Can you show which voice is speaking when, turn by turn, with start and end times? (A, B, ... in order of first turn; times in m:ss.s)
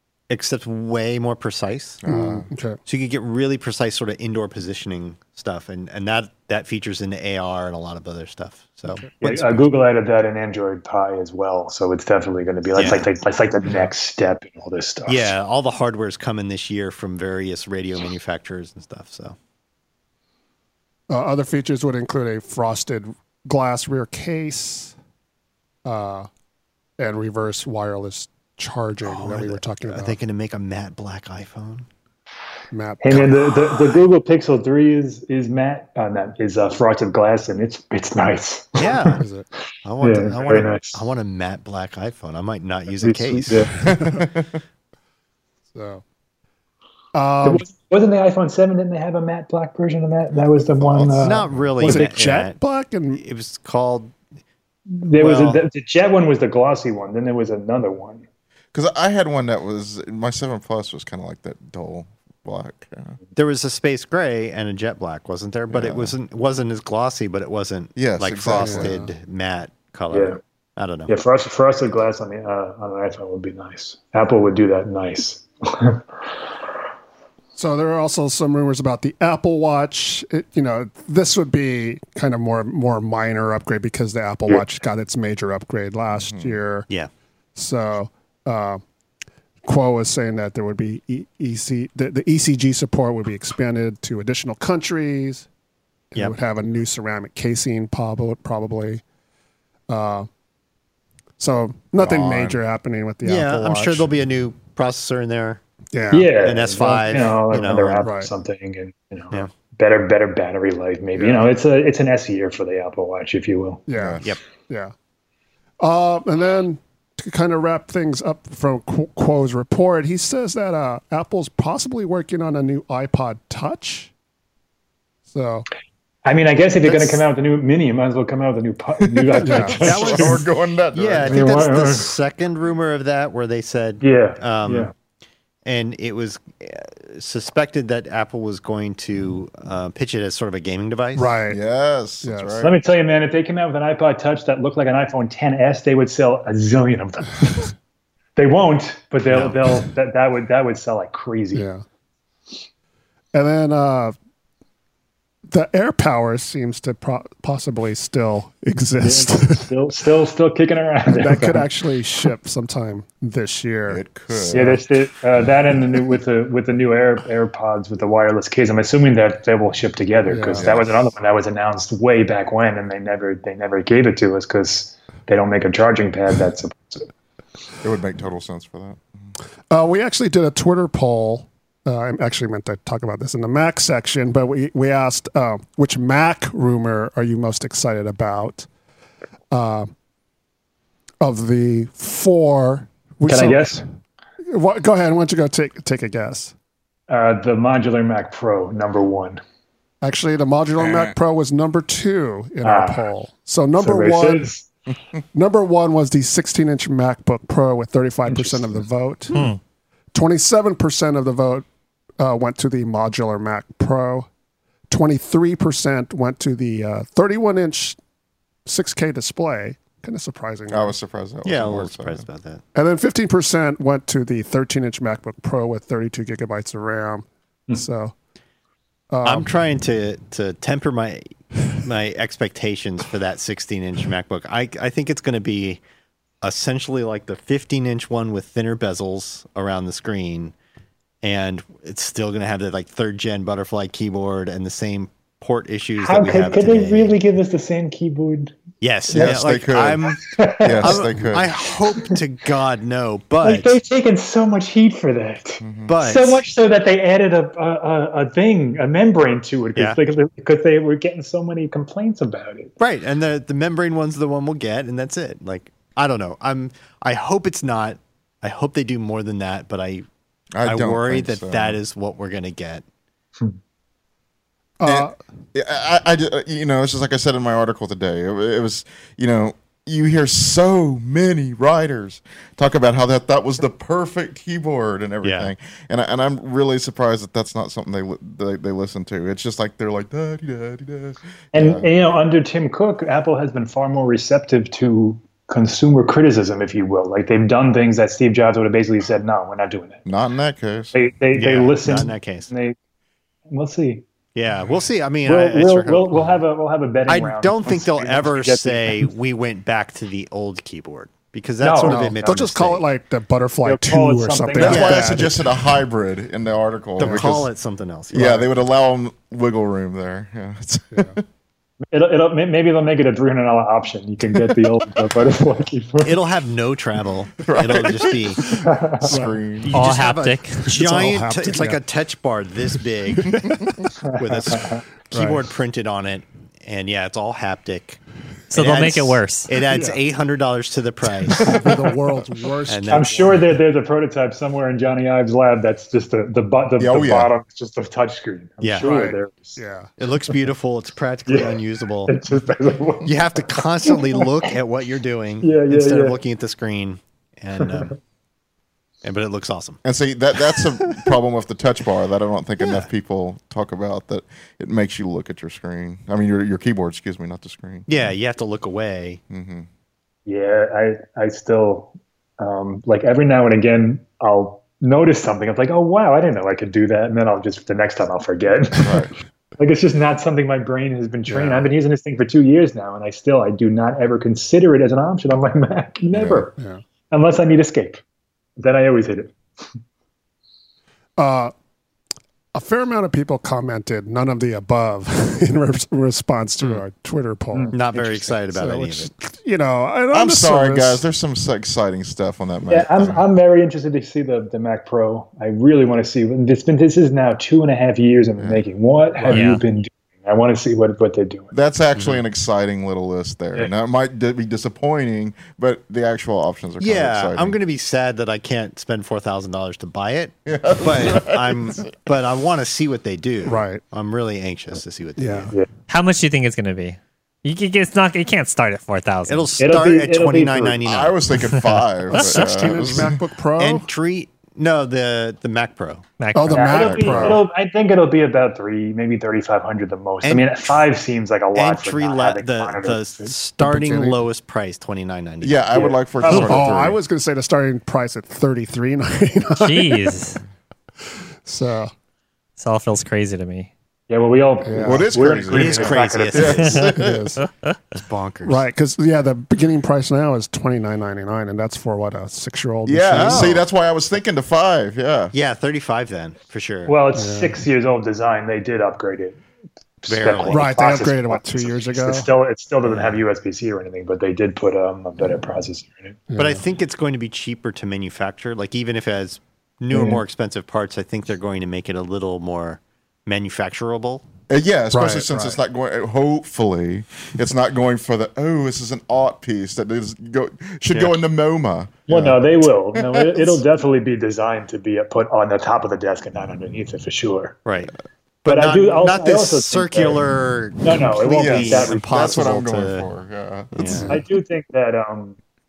0:00.3-0:02.0 A
0:02.0-0:02.5 B
0:02.0-0:02.8 C
0:02.8-0:09.0 A
0:08.9-0:09.6 C
0:09.2-0:15.3 D
0:12.8-0:13.1 A
0:15.0-0:19.4 A
0:21.1-0:24.9 C
0:25.8-0:26.3 C
0:27.0-0:30.2 C
0:29.0-0:31.9 A
0:32.7-0:33.3 C
0:33.0-0:39.2 D
0:38.8-0:39.2 A
0:39.2-0:39.4 C
0:39.8-0:43.7 A
0:40.0-0:41.0 D
0:43.0-0:43.7 D
0:43.8-0:44.6 B
0:45.7-0:46.0 C
0:47.1-0:47.6 C
0:47.4-0:52.0 D
0:50.3-0:51.7 B
0:51.2-0:52.6 A
0:51.8-0:53.2 C
0:53.1-0:54.1 A
0:54.9-0:58.2 D
0:55.1-0:55.6 A
0:58.7-1:03.2 B
1:03.3-1:11.1 A
1:05.7-1:06.1 B
1:08.0-1:09.0 B
1:08.6-1:09.1 C
1:10.1-1:10.4 D
1:11.1-1:16.0 D
1:17.6-1:26.9 C
1:26.1-1:26.6 B
1:27.5-1:28.8 C
1:29.6-1:35.5 C
1:36.1-1:39.0 C
1:39.9-1:40.3 C
1:41.4-1:44.1 C
1:42.0-1:42.6 B
1:43.2-1:45.6 A
1:45.9-1:46.3 C
1:46.1-1:53.8 D
1:46.4-1:48.1 A
1:48.0-1:48.3 C
1:51.1-1:51.5 C
1:53.9-1:54.9 C
1:53.9-1:54.3 B
1:55.8-2:04.1 C
2:05.3-2:05.6 C
2:06.2-2:10.4 D
2:06.8-2:07.2 A
2:09.0-2:11.6 B
2:09.4-2:09.8 C
2:09.8-2:14.9 A
2:11.2-2:12.1 D
2:14.0-2:14.9 D
2:15.6-2:21.3 A
2:21.1-2:21.6 C
2:21.5-2:22.7 B
2:22.2-2:22.7 C
2:22.6-2:27.7 D
2:28.4-2:31.6 D
2:29.3-2:29.8 A
2:31.5-2:31.8 C
2:33.3-2:34.2 C
2:35.5-2:39.7 C
2:39.0-2:41.6 D
2:41.1-2:44.8 C
2:43.9-2:44.8 B
2:44.5-2:57.1 D
2:50.3-2:50.7 C
2:50.6-2:50.9 B
2:57.8-2:59.3 B
2:59.7-3:08.7 C
3:09.5-3:09.9 C
3:11.2-3:13.8 C
3:13.2-3:13.8 D
3:14.4-3:16.5 C
3:17.1-3:19.4 D
3:20.0-3:24.5 C
3:20.8-3:21.1 B
3:22.6-3:23.0 D
3:23.8-3:24.7 D
3:25.3-3:29.5 C
3:28.3-3:28.6 D
3:29.3-3:29.6 E
3:30.1-3:31.6 C
3:32.2-3:34.3 C
3:34.9-3:38.0 C
3:38.6-3:40.9 C
3:40.7-3:42.2 B
3:41.4-3:42.6 A
3:42.7-3:48.1 C
3:49.1-3:49.5 C
3:49.2-3:55.8 A
3:56.4-4:00.5 A
4:01.2-4:07.2 A
4:06.0-4:08.6 D
4:08.8-4:13.8 A
4:09.1-4:11.5 B
4:10.2-4:11.0 D
4:13.4-4:22.7 D
4:15.6-4:15.9 B
4:15.9-4:16.4 A
4:19.7-4:20.0 A
4:22.8-4:30.0 A
4:30.6-4:31.8 B
4:30.6-4:32.8 A
4:34.8-4:35.2 C
4:34.8-4:51.9 B
4:45.2-4:45.5 A
4:51.5-5:00.0 D
5:00.0-5:01.0 B
5:00.9-5:02.8 D
5:01.3-5:02.5 A
5:03.5-5:04.0 D
5:04.3-5:06.2 A
5:05.2-5:09.0 D
5:07.1-5:12.8 A
5:11.6-5:12.1 D
5:11.8-5:15.5 C
5:13.6-5:15.1 D
5:14.5-5:17.5 B
5:14.6-5:15.1 A
5:17.0-5:18.5 A
5:17.0-5:17.4 C
5:18.1-5:21.2 B
5:21.9-5:26.2 D
5:26.0-5:28.4 A
5:27.4-5:29.7 B
5:28.6-5:29.1 D
5:29.0-5:29.4 C
5:29.6-5:33.5 A
5:29.7-5:30.6 E
5:30.6-5:31.8 C
5:33.2-5:33.7 C
5:33.4-5:33.7 B
5:34.0-5:34.8 D
5:34.1-5:38.0 A
5:35.1-5:35.4 C
5:38.5-5:39.5 E
5:38.5-5:41.6 A
5:39.7-5:40.0 C
5:41.4-5:41.9 B
5:41.4-5:43.4 C
5:42.7-5:43.4 A
5:42.9-5:49.6 D
5:46.8-5:47.3 B
5:48.6-5:48.9 A
5:48.8-5:49.9 C
5:50.0-5:52.2 A
5:51.3-5:51.6 D
5:52.1-5:54.5 D
5:53.0-5:58.0 A
5:55.4-5:56.2 D
5:59.0-5:59.8 A
5:59.8-6:07.9 B
6:02.6-6:02.8 A
6:07.8-6:09.2 A
6:09.3-6:09.7 B
6:10.2-6:26.6 D
6:18.8-6:19.1 B
6:21.3-6:21.7 C
6:26.1-6:26.5 B
6:26.6-6:26.8 C
6:27.1-6:28.0 D
6:28.6-6:29.4 D
6:31.2-6:31.5 C
6:32.5-6:41.0 C
6:37.7-6:39.1 A
6:40.1-6:43.2 B
6:42.7-6:51.5 D
6:48.4-6:48.6 B
6:49.2-6:49.4 C
6:49.3-6:49.6 E
6:51.5-6:57.6 B
6:51.9-6:52.2 A
6:56.8-7:05.5 A
7:00.4-7:01.8 B
7:03.4-7:03.8 C
7:05.2-7:05.5 C
7:05.9-7:09.5 E
7:09.3-7:11.2 A
7:09.6-7:10.8 D
7:10.8-7:13.2 B
7:11.4-7:13.0 E
7:12.1-7:13.9 C
7:13.6-7:16.0 A
7:16.2-7:16.7 E
7:16.3-7:17.4 C
7:16.5-7:23.3 D
7:16.6-7:17.4 B
7:20.2-7:20.8 A
7:21.5-7:25.9 A
7:23.6-7:24.2 C
7:25.4-7:27.0 B
7:25.7-7:26.7 D
7:26.3-7:30.2 C
7:29.5-7:30.4 E
7:31.4-7:31.9 C
7:32.6-7:33.7 E
7:34.1-7:36.9 D
7:34.6-7:35.2 C
7:34.8-7:37.4 B
7:35.4-7:36.7 A
7:36.6-7:37.7 E
7:37.0-7:37.4 C
7:37.9-7:38.6 A
7:38.4-7:43.6 C
7:42.8-7:45.3 B
7:43.1-7:43.6 A
7:45.3-7:47.0 A
7:46.8-7:49.4 D
7:47.1-7:47.6 C
7:50.0-7:56.2 D
7:50.1-7:50.7 A
7:50.5-7:52.3 C
7:52.8-7:53.2 A
7:56.3-7:56.6 C
7:56.4-8:04.2 A
7:59.9-8:00.2 D
8:04.5-8:13.6 B
8:04.9-8:05.6 C
8:10.9-8:11.2 A
8:12.1-8:17.6 D
8:17.6-8:23.1 A
8:18.4-8:20.2 D
8:20.8-8:22.6 D
8:21.4-8:24.2 B
8:23.7-8:24.1 A
8:23.9-8:24.2 C
8:24.1-8:25.4 D